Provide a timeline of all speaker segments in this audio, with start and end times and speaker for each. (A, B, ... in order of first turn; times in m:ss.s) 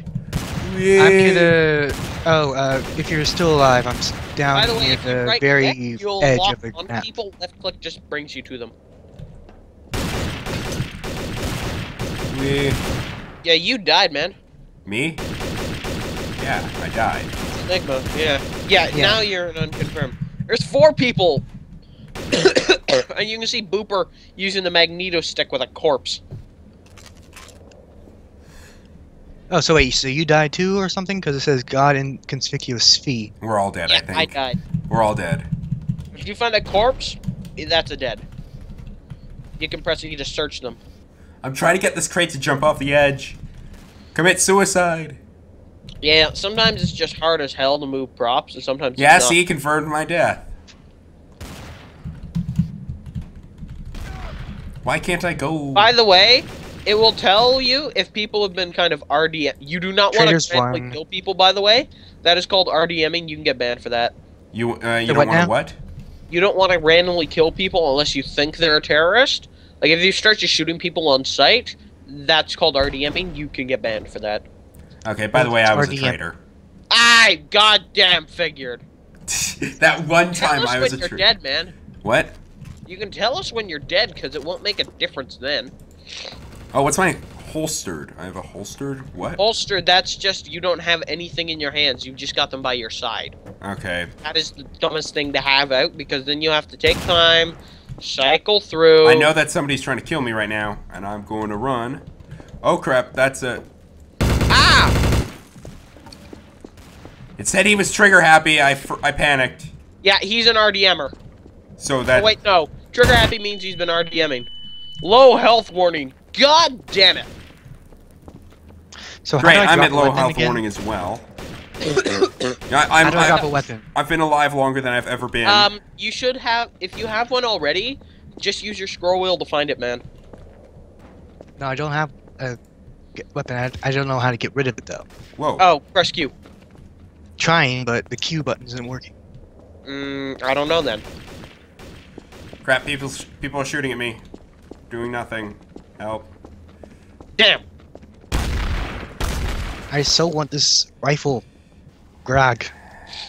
0:00.6-0:01.6 A
0:01.0-0:07.1 B
0:04.5-0:08.7 C
0:12.3-0:12.8 A
0:13.4-0:14.4 C
0:14.9-0:15.2 A
0:16.4-0:17.3 A
0:17.6-0:21.4 C
0:18.9-0:19.2 B
0:22.3-0:26.2 C
0:29.5-0:33.3 B
0:33.4-0:34.4 A
0:33.9-0:34.6 C
0:34.9-0:35.5 A
0:36.1-0:38.2 C
0:39.6-0:40.8 C
0:41.4-0:43.4 A
0:44.1-0:45.2 A
0:46.0-0:49.4 C
0:49.0-0:50.5 A
0:54.8-0:55.9 A
0:55.7-1:04.1 C
1:00.1-1:01.0 B
1:04.5-1:05.8 A
1:05.1-1:05.5 B
1:06.3-1:14.4 C
1:15.0-1:16.4 A
1:15.3-1:16.2 B
1:16.9-1:18.8 C
1:19.3-1:21.2 A
1:20.4-1:21.7 C
1:22.0-1:22.4 A
1:22.9-1:25.7 C
1:26.7-1:29.4 A
1:29.4-1:33.4 C
1:33.6-1:34.1 A
1:34.2-1:39.3 C
1:39.0-1:42.0 A
1:42.6-1:43.6 A
1:44.5-1:44.9 C
1:47.4-1:49.7 A
1:50.0-1:51.1 C
1:51.8-1:52.4 A
1:52.1-1:54.5 C
1:55.0-1:57.3 C
1:59.2-2:00.6 B
1:59.4-2:01.2 A
2:01.9-2:02.3 C
2:02.7-2:05.7 A
2:03.0-2:03.8 B
2:03.1-2:03.5 C
2:05.4-2:10.0 C
2:11.6-2:12.6 B
2:13.1-2:15.1 B
2:15.4-2:15.6 A
2:15.6-2:16.3 C
2:17.4-2:19.1 B
2:19.9-2:21.0 C
2:22.6-2:24.2 A
2:24.9-2:26.3 A
2:27.4-2:27.6 C
2:29.9-2:31.4 B
2:32.2-2:32.7 B